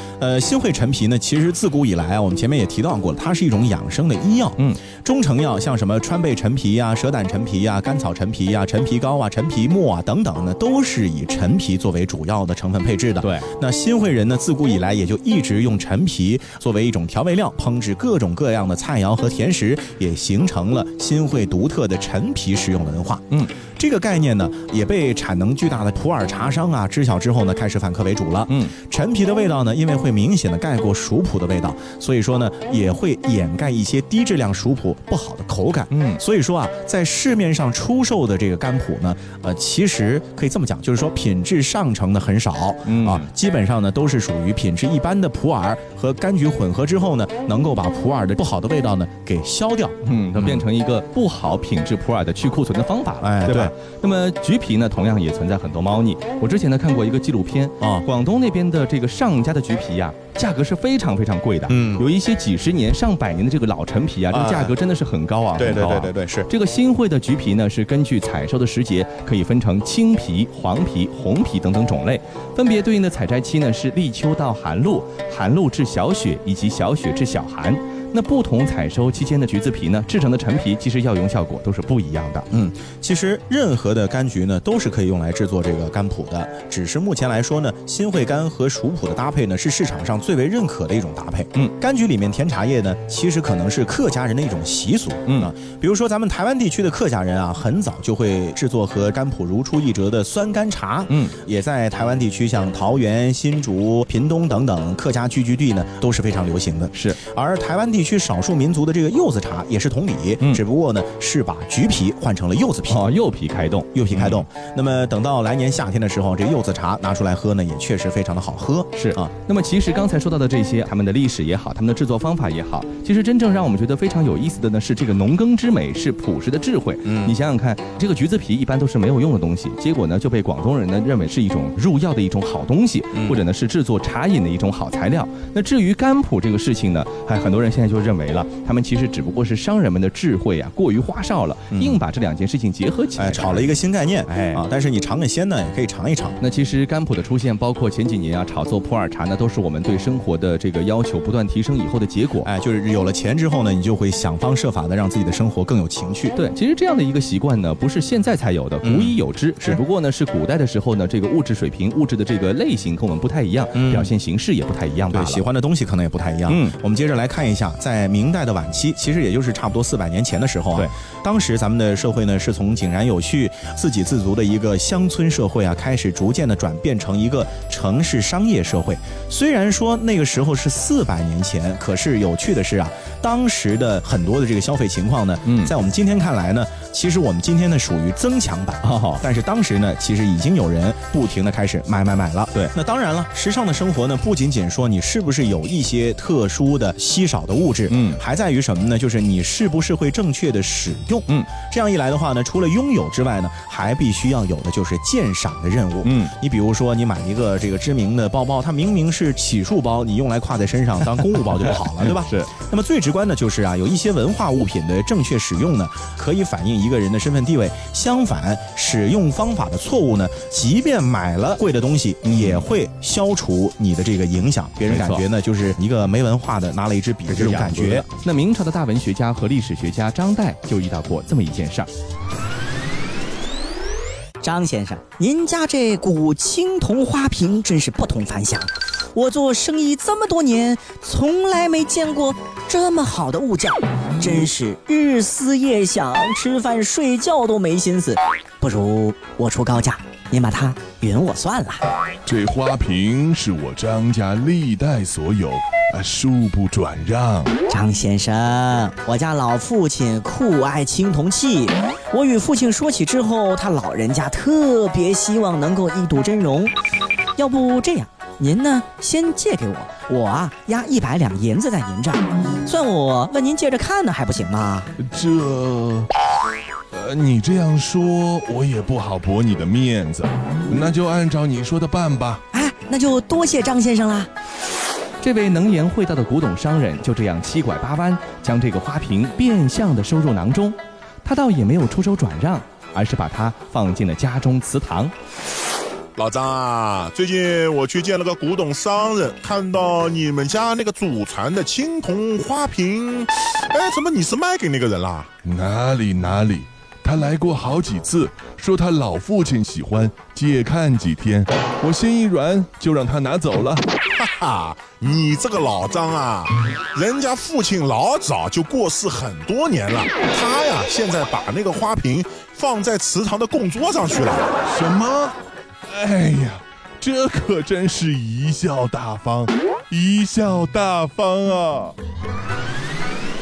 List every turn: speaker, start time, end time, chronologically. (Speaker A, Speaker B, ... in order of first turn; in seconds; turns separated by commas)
Speaker A: 0.2-50.6, Speaker B: 13.2-13.5, Speaker B: 35.9-36.2, Speaker B: 42.9-43.3, Speaker B: 50.0-82.5, Speaker A: 53.2-53.7, Speaker A: 57.8-58.1, Speaker A: 61.7-62.0, Speaker A: 64.3-64.7, Speaker A: 65.6-66.5, Speaker A: 82.5-113.1, Speaker B: 101.1-101.3, Speaker B: 106.9-107.2, Speaker B: 112.9-114.4, Speaker A: 113.9-119.3, Speaker B: 118.9-143.7, Speaker A: 127.0-127.3, Speaker A: 141.7-142.0, Speaker A: 143.2-146.4, Speaker B: 144.2-144.6, Speaker B: 146.4-152.5, Speaker A: 152.4-156.3, Speaker B: 156.3-165.4, Speaker A: 158.8-159.8, Speaker A: 163.7-164.1, Speaker A: 165.1-228.1, Speaker B: 166.5-166.8, Speaker B: 185.4-185.7, Speaker B: 188.8-189.2, Speaker B: 197.9-198.2, Speaker B: 206.0-206.3, Speaker B: 211.6-212.5, Speaker B: 222.3-222.6, Speaker B: 224.9-225.2, Speaker B: 227.3-231.9, Speaker C: 234.4-251.8, Speaker D: 252.2-257.5, Speaker C: 257.7-266.7, Speaker C: 267.4-274.9, Speaker D: 275.0-276.1, Speaker D: 276.9-282.4, Speaker C: 282.5-284.3, Speaker B: 285.2-295.1, Speaker E: 296.1-305.3, Speaker D: 305.4-313.8, Speaker E: 314.2-324.6, Speaker D: 324.6-331.9